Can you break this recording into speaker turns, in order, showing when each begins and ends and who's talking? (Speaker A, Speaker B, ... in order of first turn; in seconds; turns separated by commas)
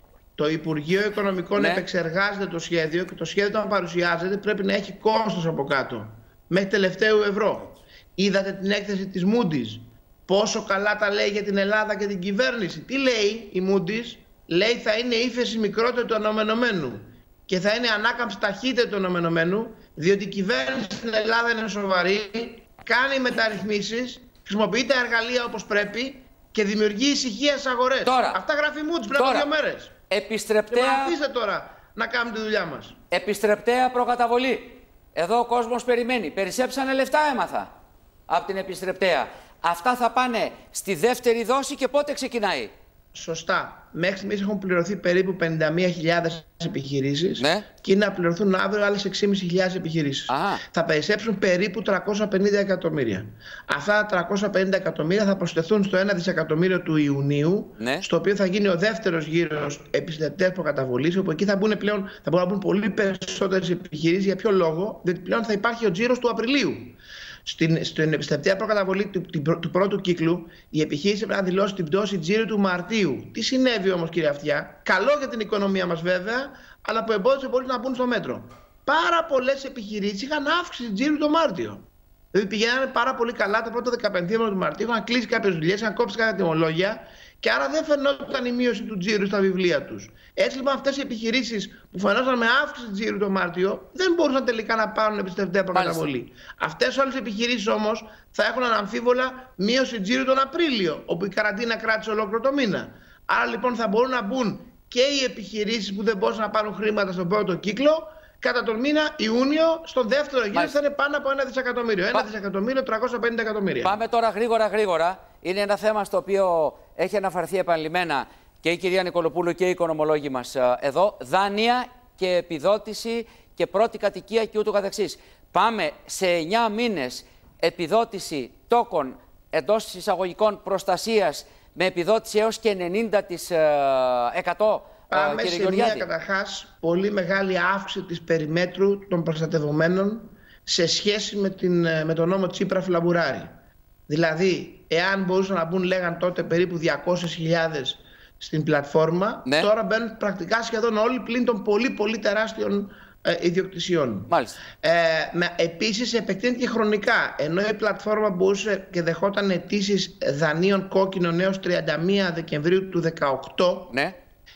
Speaker A: 0.4-29.9, Speaker B: 1.6-1.8, Speaker B: 28.0-28.4, Speaker B: 29.1-29.5, Speaker B: 30.1-31.1, Speaker A: 30.7-32.9, Speaker B: 33.1-37.7, Speaker B: 38.3-42.7, Speaker A: 43.1-114.0, Speaker B: 47.4-47.6, Speaker B: 50.3-50.6, Speaker B: 57.8-58.0, Speaker B: 95.7-96.1, Speaker B: 113.8-136.1, Speaker A: 135.1-143.5, Speaker A: 144.1-154.3, Speaker B: 154.3-154.6, Speaker A: 154.8-163.9, Speaker B: 163.9-164.1